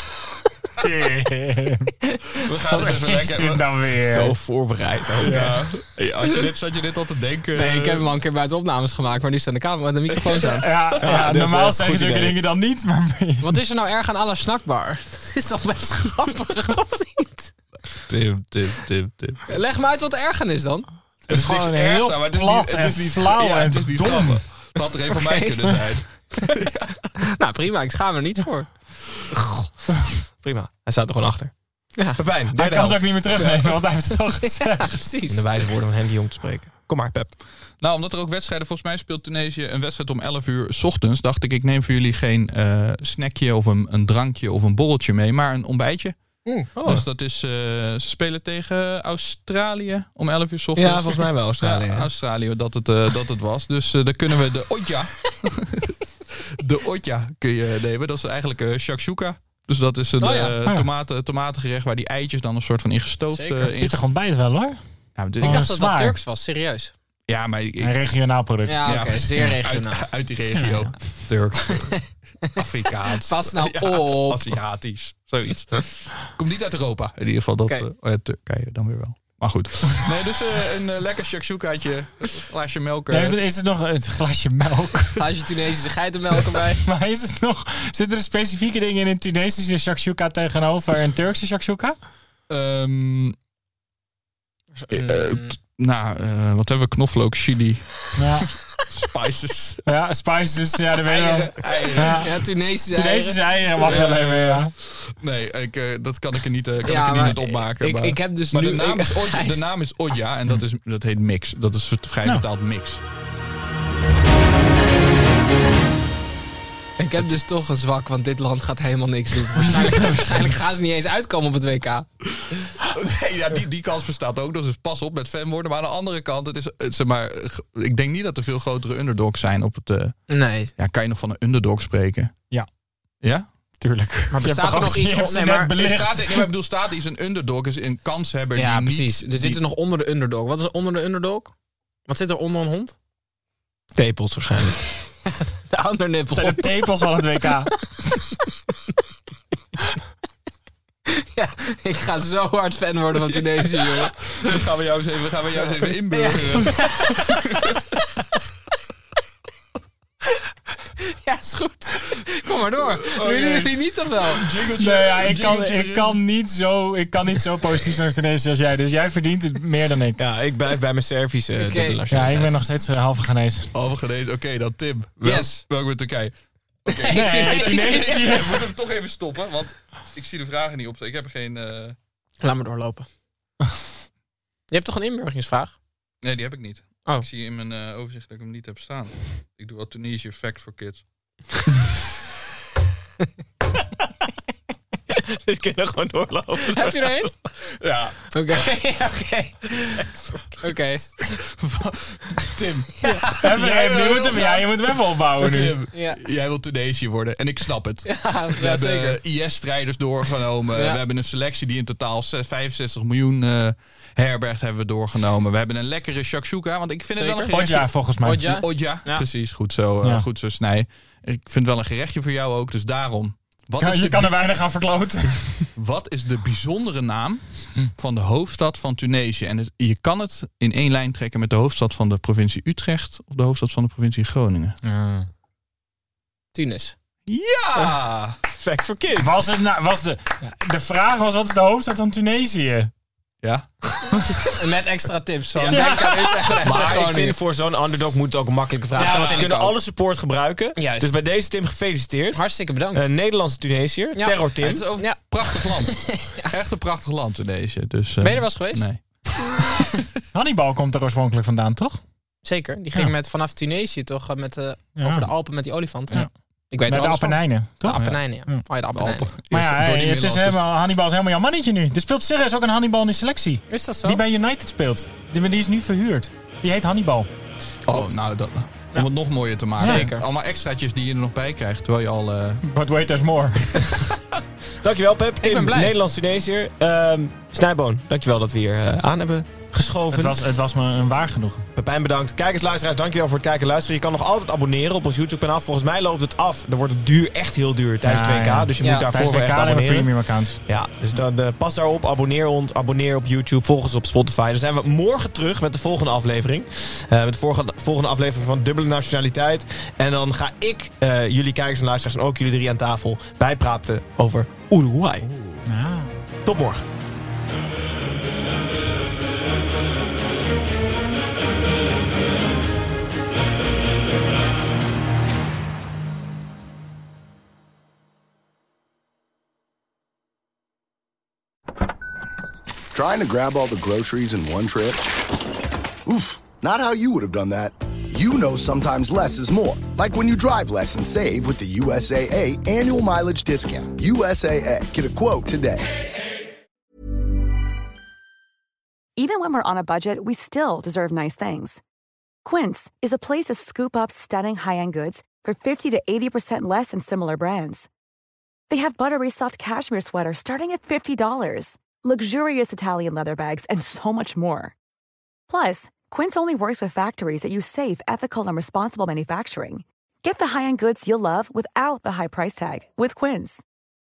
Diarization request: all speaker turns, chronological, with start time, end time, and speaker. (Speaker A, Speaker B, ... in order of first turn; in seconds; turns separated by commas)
Speaker A: 0.8-1.9, Speaker B: 2.3-3.8, Speaker A: 2.7-4.3, Speaker C: 4.0-5.4, Speaker B: 5.2-8.1, Speaker A: 5.2-5.6, Speaker D: 7.5-10.7, Speaker B: 10.1-11.2, Speaker A: 10.6-13.6, Speaker C: 11.0-12.4, Speaker D: 13.4-17.5, Speaker B: 17.9-19.4, Speaker D: 19.5-20.9, Speaker A: 21.3-24.4, Speaker B: 21.3-27.0, Speaker D: 25.1-26.0, Speaker D: 27.3-28.7, Speaker C: 29.3-29.9, Speaker C: 30.4-31.5, Speaker D: 32.0-32.2, Speaker C: 32.1-33.6, Speaker A: 32.5-35.0, Speaker D: 33.3-33.7, Speaker D: 34.4-35.6, Speaker C: 35.3-37.3, Speaker B: 37.8-46.1, Speaker C: 46.5-47.0, Speaker B: 46.8-64.0, Speaker C: 50.8-52.1, Speaker D: 60.2-60.6, Speaker D: 63.3-63.8, Speaker A: 63.8-64.8, Speaker B: 65.2-65.7, Speaker A: 65.4-66.2, Speaker D: 65.4-66.9, Speaker B: 67.3-68.0, Speaker A: 67.8-68.8, Speaker D: 68.7-70.2, Speaker B: 68.8-83.4, Speaker D: 73.2-74.6, Speaker A: 83.1-85.3, Speaker D: 85.2-86.8, Speaker A: 86.7-92.0, Speaker B: 92.5-93.3, Speaker D: 94.7-95.5, Speaker B: 94.9-98.1, Speaker A: 98.2-98.5, Speaker B: 98.7-99.8, Speaker A: 99.8-102.3, Speaker B: 101.0-102.5, Speaker D: 101.9-104.0, Speaker A: 102.9-104.7, Speaker B: 103.8-113.0, Speaker D: 106.8-109.8, Speaker D: 117.0-122.0, Speaker B: 119.7-120.1, Speaker B: 122.3-130.1, Speaker D: 130.3-130.7, Speaker B: 130.8-132.3, Speaker A: 133.8-136.4, Speaker D: 134.3-135.7, Speaker B: 135.8-139.6, Speaker D: 138.6-141.5, Speaker D: 142.1-142.9, Speaker C: 143.9-144.8, Speaker D: 145.2-146.9, Speaker A: 146.3-147.8, Speaker D: 151.1-154.1, Speaker B: 153.2-157.8, Speaker D: 156.1-157.2, Speaker D: 161.0-164.5, Speaker B: 163.0-166.2, Speaker A: 164.8-170.2, Speaker C: 170.2-172.6, Speaker D: 171.6-172.0, Speaker A: 172.1-173.7, Speaker B: 173.7-176.3, Speaker D: 175.2-175.6, Speaker B: 176.8-181.9, Speaker D: 177.0-178.4, Speaker A: 177.1-178.6, Speaker D: 182.4-183.1, Speaker D: 184.7-185.8, Speaker B: 186.2-191.0, Speaker C: 195.1-197.3, Speaker D: 196.7-197.3, Speaker B: 197.8-198.3, Speaker D: 198.3-201.3, Speaker B: 201.4-204.6, Speaker D: 203.0-203.5, Speaker A: 203.3-205.8, Speaker B: 205.4-224.3, Speaker D: 205.9-206.2, Speaker D: 208.0-209.2, Speaker D: 210.7-211.0, Speaker D: 217.1-219.3, Speaker A: 217.7-218.4, Speaker A: 223.8-225.7, Speaker B: 225.8-234.8, Speaker A: 234.8-235.3, Speaker D: 236.5-236.9, Speaker B: 237.3-238.4, Speaker C: 237.7-238.0, Speaker C: 238.5-239.4, Speaker A: 239.2-242.9, Speaker B: 243.4-244.6, Speaker D: 244.5-247.4, Speaker B: 245.5-245.9, Speaker A: 245.7-246.7, Speaker C: 246.6-254.8, Speaker B: 246.7-247.1, Speaker D: 248.9-249.7, Speaker A: 248.9-249.4, Speaker D: 250.8-251.2, Speaker D: 252.3-253.1, Speaker D: 254.1-256.5, Speaker B: 254.6-259.9, Speaker D: 258.2-258.9, Speaker A: 260.3-262.0, Speaker D: 262.4-269.3, Speaker A: 265.0-265.3, Speaker A: 266.8-268.6, Speaker B: 267.9-268.2, Speaker B: 268.9-270.6, Speaker A: 269.5-277.3, Speaker D: 273.7-274.2, Speaker B: 277.9-282.6, Speaker A: 279.8-280.1, Speaker D: 279.8-280.2, Speaker A: 282.6-283.9, Speaker C: 284.8-290.4, Speaker D: 285.4-285.9, Speaker A: 290.1-291.7, Speaker C: 291.8-300.1, Speaker A: 298.0-300.6, Speaker D: 298.8-299.1, Speaker C: 300.6-315.3, Speaker B: 315.2-315.6, Speaker A: 315.6-316.2, Speaker C: 316.4-316.8, Speaker E: 332.9-335.1, Speaker E: 336.1-345.9, Speaker F: 349.2-351.8, Speaker F: 352.4-357.9, Speaker F: 358.7-364.7, Speaker F: 365.5-373.6